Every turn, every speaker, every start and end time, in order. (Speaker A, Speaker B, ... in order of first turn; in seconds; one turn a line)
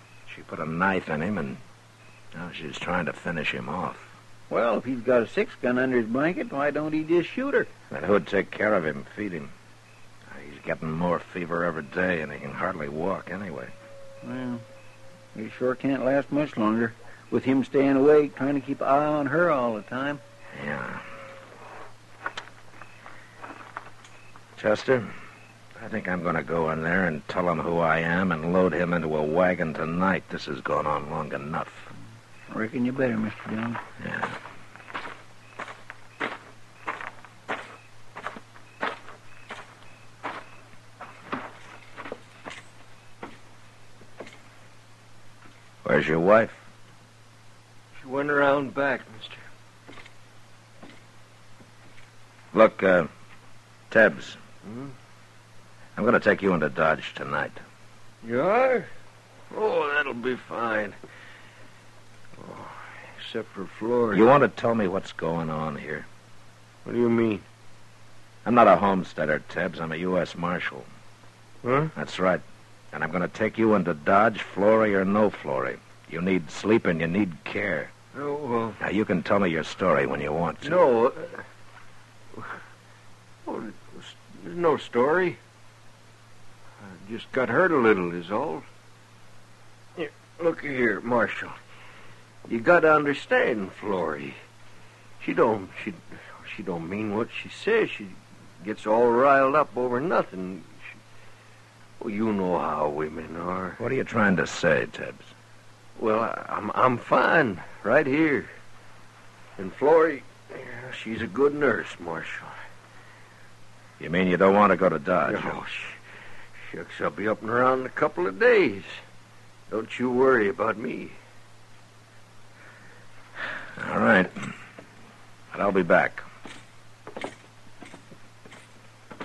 Speaker A: 0.3-1.6
Speaker A: 2.3-4.1
Speaker B: 4.5-7.7
Speaker A: 7.9-9.5
Speaker A: 10.3-13.7
Speaker B: 14.2-14.6
Speaker B: 15.3-20.2
Speaker A: 20.5-21.1
Speaker A: 24.6-25.1
Speaker A: 25.8-31.9
Speaker B: 32.5-33.8
Speaker A: 34.0-34.4
Speaker A: 45.9-46.6
Speaker C: 48.0-49.4
Speaker A: 52.5-53.1
Speaker A: 53.9-54.4
Speaker C: 54.6-54.9
Speaker A: 56.0-57.6
Speaker C: 58.2-58.9
Speaker C: 59.5-61.0
Speaker C: 62.4-64.2
Speaker A: 64.1-66.1
Speaker C: 66.8-67.5
Speaker A: 68.5-70.9
Speaker C: 71.6-71.9
Speaker A: 71.9-77.9
Speaker C: 78.1-78.8
Speaker A: 78.8-80.8
Speaker C: 80.6-81.4
Speaker C: 83.5-85.4
Speaker C: 86.8-88.7
Speaker C: 90.0-91.6
Speaker C: 92.5-94.4
Speaker C: 95.2-100.9
Speaker C: 102.0-103.8
Speaker A: 103.8-105.3
Speaker C: 106.0-108.5
Speaker C: 109.6-112.5
Speaker A: 114.0-115.6
Speaker C: 115.3-116.0
Speaker C: 116.7-119.0
Speaker C: 119.7-121.2
Speaker A: 123.8-124.5
Speaker A: 125.5-126.2